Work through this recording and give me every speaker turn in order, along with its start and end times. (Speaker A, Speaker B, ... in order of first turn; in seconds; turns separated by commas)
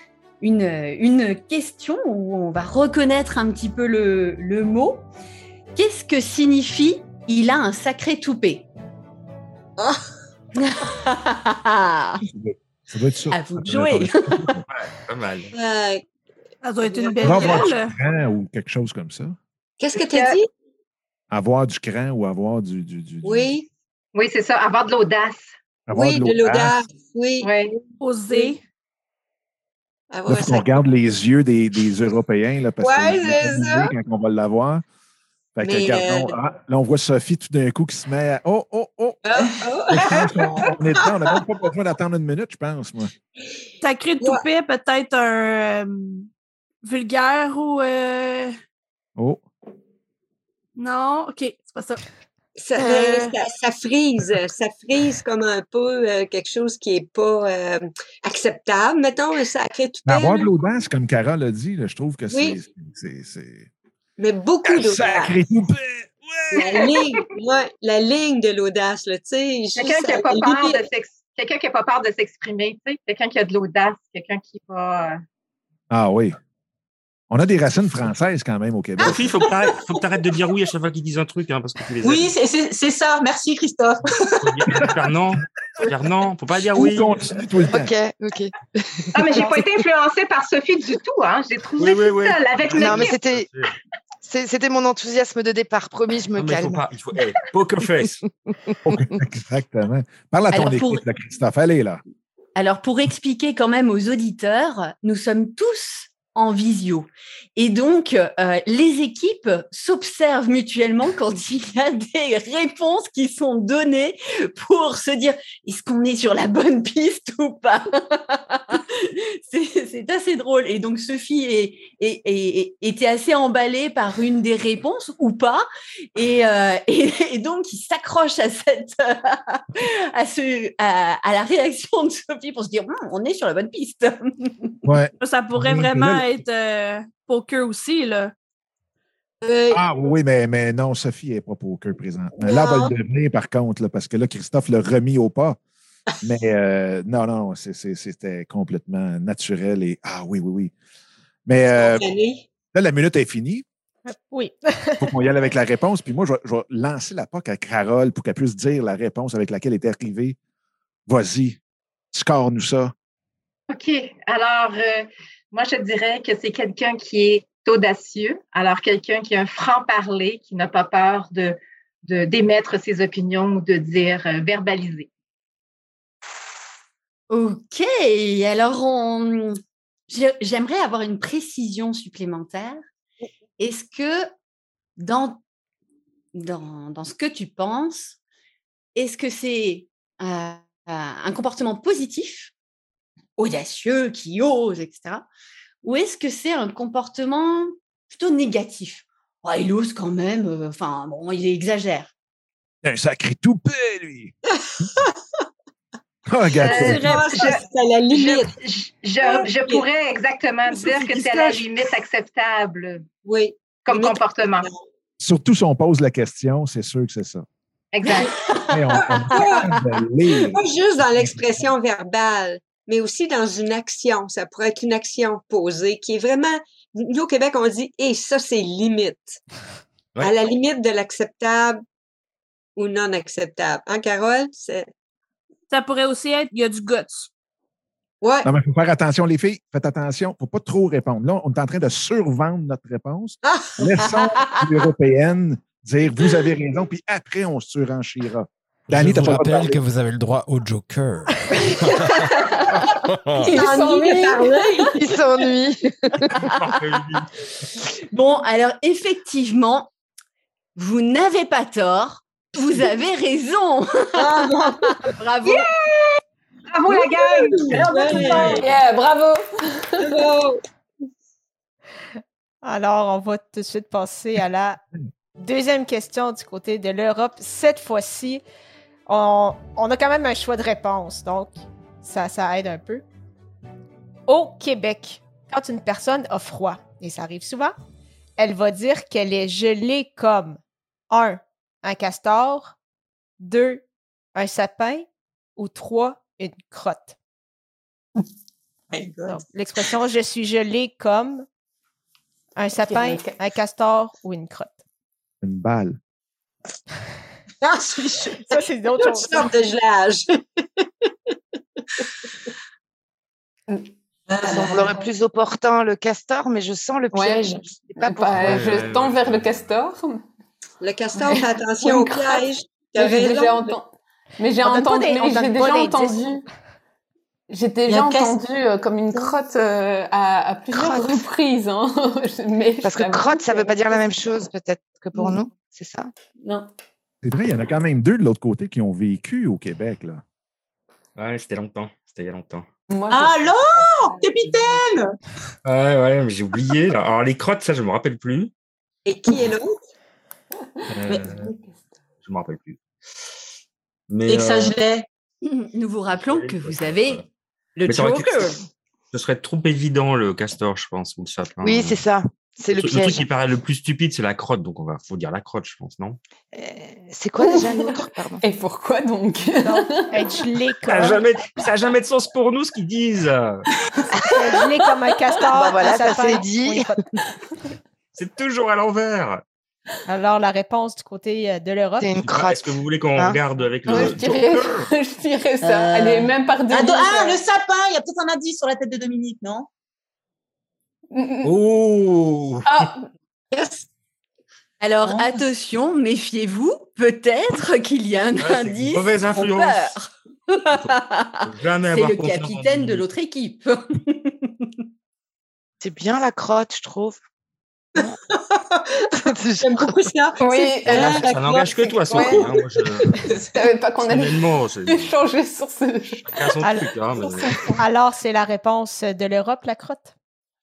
Speaker A: 0.4-5.0, Speaker A: 5.8-8.7, Speaker A: 10.6-12.2, Speaker B: 12.2-14.7, Speaker A: 13.3-14.5, Speaker C: 14.7-15.5, Speaker D: 15.5-16.1, Speaker E: 16.6-17.9, Speaker D: 17.0-17.6, Speaker B: 17.2-19.4, Speaker F: 17.3-17.6, Speaker D: 19.8-20.5, Speaker F: 19.9-20.4, Speaker B: 21.3-23.5, Speaker D: 23.2-23.7, Speaker F: 24.1-25.5, Speaker B: 25.9-26.8, Speaker D: 25.9-27.5, Speaker F: 27.4-27.8, Speaker E: 28.0-28.6, Speaker D: 30.1-30.8, Speaker B: 30.3-34.8, Speaker D: 32.8-33.9, Speaker B: 35.6-43.1, Speaker D: 35.6-36.4, Speaker D: 39.2-41.4, Speaker E: 43.8-46.3, Speaker E: 46.8-48.5, Speaker E: 50.8-52.0, Speaker D: 52.6-60.5, Speaker E: 52.8-53.4, Speaker B: 60.1-63.7, Speaker D: 62.3-62.6, Speaker D: 64.2-65.4, Speaker B: 64.7-66.7, Speaker D: 66.5-70.8, Speaker F: 66.6-67.1, Speaker F: 69.8-75.2, Speaker B: 75.9-76.4, Speaker B: 77.3-79.4, Speaker C: 79.0-82.3, Speaker G: 82.0-84.8, Speaker C: 84.4-87.3, Speaker B: 86.7-87.9, Speaker H: 87.7-89.1, Speaker F: 89.1-93.2, Speaker C: 91.8-93.7, Speaker H: 92.8-93.5, Speaker H: 94.2-96.8, Speaker C: 96.4-98.2, Speaker B: 98.8-102.0, Speaker A: 100.5-101.0, Speaker A: 102.6-134.7, Speaker B: 134.8-136.4, Speaker E: 135.2-138.3, Speaker D: 139.4-139.8, Speaker B: 139.7-145.6, Speaker D: 142.4-142.9, Speaker B: 146.2-150.7, Speaker B: 151.5-152.1, Speaker D: 151.7-152.5, Speaker B: 152.7-153.7, Speaker I: 154.1-155.1, Speaker B: 155.0-160.4, Speaker B: 161.1-161.6, Speaker B: 162.1-162.9, Speaker F: 163.7-175.1, Speaker A: 177.3-182.8, Speaker A: 183.6-184.3, Speaker A: 185.0-185.4, Speaker A: 186.3-188.2, Speaker A: 188.9-192.5, Speaker A: 193.4-195.3, Speaker A: 195.8-202.1, Speaker B: 202.8-204.9, Speaker B: 206.3-207.2, Speaker F: 206.6-213.1, Speaker D: 206.7-208.5, Speaker D: 209.2-209.8, Speaker D: 210.7-211.7, Speaker D: 213.2-214.8, Speaker F: 213.8-214.7, Speaker B: 215.2-217.4, Speaker F: 217.9-218.3, Speaker A: 218.1-219.6, Speaker B: 218.7-221.7, Speaker D: 219.1-219.7, Speaker D: 220.4-229.4, Speaker D: 230.2-231.8, Speaker D: 232.8-234.9, Speaker E: 235.7-237.3, Speaker D: 238.2-238.5, Speaker B: 238.4-249.8, Speaker J: 248.9-253.6, Speaker K: 253.3-255.0, Speaker D: 253.5-254.9, Speaker H: 254.9-256.3, Speaker C: 256.4-257.3, Speaker A: 258.1-259.9, Speaker A: 260.8-265.7, Speaker D: 264.3-264.7, Speaker F: 266.7-268.5, Speaker D: 266.9-268.7, Speaker K: 268.4-270.3, Speaker D: 270.0-270.6, Speaker I: 272.6-274.8, Speaker I: 275.4-278.4, Speaker I: 279.1-283.0, Speaker I: 284.3-287.8, Speaker I: 288.4-292.8, Speaker I: 293.4-297.2, Speaker G: 298.9-299.4, Speaker I: 299.3-301.5, Speaker I: 302.6-304.8, Speaker K: 302.8-303.4, Speaker B: 305.4-306.0, Speaker D: 307.7-308.3, Speaker I: 308.4-309.5, Speaker D: 309.0-310.4, Speaker G: 314.3-314.9, Speaker K: 314.5-315.1, Speaker H: 314.5-318.6, Speaker K: 317.1-320.2, Speaker C: 318.3-319.6, Speaker D: 320.8-323.8, Speaker K: 321.1-326.4, Speaker I: 324.6-326.4, Speaker K: 327.5-334.2, Speaker G: 327.9-328.4, Speaker H: 330.7-331.2, Speaker H: 332.8-336.1, Speaker K: 336.4-336.7, Speaker B: 337.2-340.2, Speaker C: 341.2-342.7, Speaker K: 342.9-344.9, Speaker G: 343.1-345.1, Speaker C: 345.6-348.5, Speaker D: 349.1-349.8, Speaker C: 350.9-351.5, Speaker G: 351.1-351.5, Speaker K: 351.5-351.8, Speaker C: 352.2-352.8, Speaker C: 354.1-354.8, Speaker G: 354.3-355.1, Speaker A: 355.4-357.2, Speaker C: 356.2-357.3, Speaker A: 357.8-358.6, Speaker C: 357.9-358.5, Speaker C: 359.1-362.0, Speaker H: 361.6-363.3, Speaker C: 362.8-366.2, Speaker H: 366.5-368.4, Speaker K: 367.4-370.4, Speaker I: 369.6-371.2, Speaker C: 370.9-373.6, Speaker I: 374.3-377.0, Speaker H: 375.5-376.9, Speaker C: 378.1-379.4, Speaker I: 380.1-382.1, Speaker H: 382.0-383.4, Speaker C: 382.3-384.9, Speaker K: 383.9-387.4, Speaker G: 385.6-389.7, Speaker K: 391.1-391.6, Speaker C: 391.4-392.9, Speaker K: 392.7-393.1, Speaker D: 393.5-393.9, Speaker A: 394.8-404.7, Speaker G: 395.1-395.5, Speaker C: 398.4-399.9, Speaker C: 400.8-403.0, Speaker H: 405.8-407.2, Speaker H: 409.2-410.1, Speaker D: 409.6-412.4, Speaker K: 410.4-412.7, Speaker C: 410.9-413.3, Speaker K: 413.3-416.5, Speaker C: 414.0-415.1, Speaker C: 416.3-417.6, Speaker I: 416.6-416.9, Speaker K: 417.2-417.8, Speaker I: 417.8-420.1